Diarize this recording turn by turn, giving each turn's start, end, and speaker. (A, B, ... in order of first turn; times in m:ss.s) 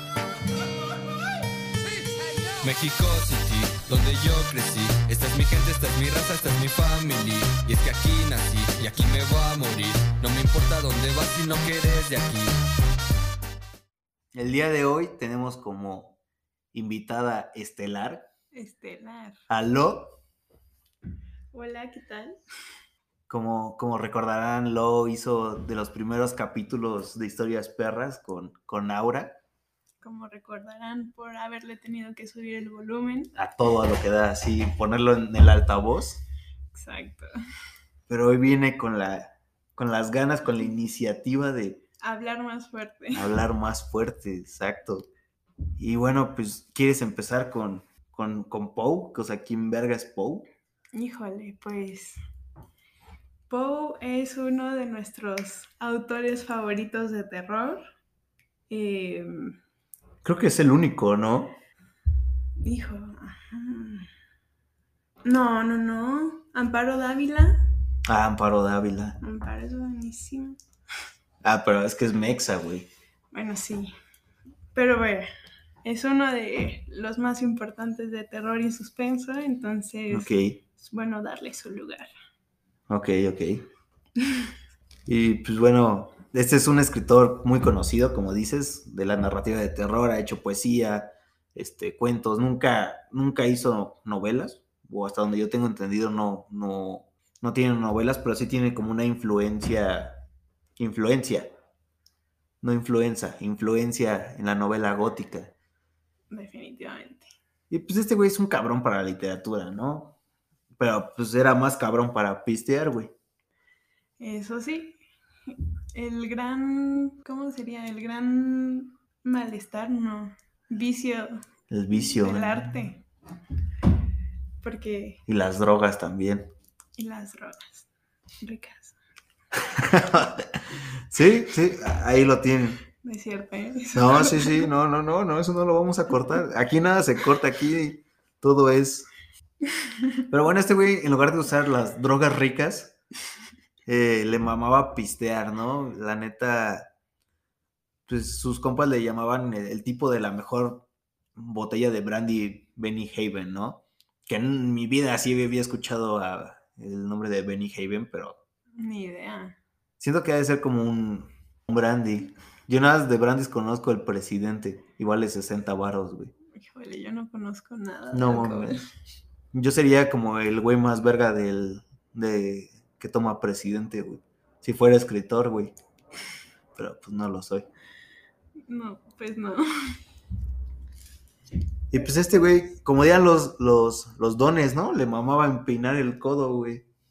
0:02.6-0:12.6 A
0:14.4-0:16.2 B
0:16.7-0:18.3 B
0:18.5-0:19.4 C
0:19.5-0:20.2 B
0:21.5-0:22.4 C
0:23.3-0:29.4 B
0:30.0-0:33.3 C
0:33.4-0:36.2 B
0:36.7-0:37.3 C
0:38.1-0:41.8 B
0:42.0-0:43.3 C
0:43.1-0:45.1 B
0:45.8-0:50.5 B
0:50.9-0:52.2 C
0:53.5-0:57.8 C
0:58.7-0:59.6 C
1:00.2-1:01.6 B
1:02.6-1:04.1 C
1:05.2-1:07.6 C
1:08.1-1:09.2 B
1:09.2-1:10.6 C
1:11.4-1:12.9 B
1:13.3-1:13.9 C
1:14.7-1:15.3 C
1:15.8-1:22.1 C
1:20.1-1:20.6 B
1:22.9-1:23.6 B
1:24.2-1:24.5 C
1:25.1-1:40.2 B
1:40.8-1:41.5 B
1:42.6-1:45.5 B
1:46.3-1:47.3 C
1:47.7-1:50.2 B
1:50.8-1:53.1 B
1:54.2-2:03.0 C
2:01.7-2:02.9 B
2:04.6-2:05.2 C
2:05.3-2:06.5 B
2:07.0-2:07.9 C
2:08.4-2:09.0 C
2:09.7-2:12.8 B
2:13.0-2:14.7 C
2:13.9-2:19.1 B
2:19.6-2:20.2 C
2:20.3-2:23.0 B
2:23.9-2:26.9 B
2:28.1-2:38.4 B
2:38.8-2:39.6 C
2:40.0-2:46.3 B
2:46.5-2:48.8 C
2:48.1-2:48.9 B
2:49.5-2:55.7 B
2:56.8-2:57.7 B
2:58.7-3:00.0 C
3:01.9-3:06.8 B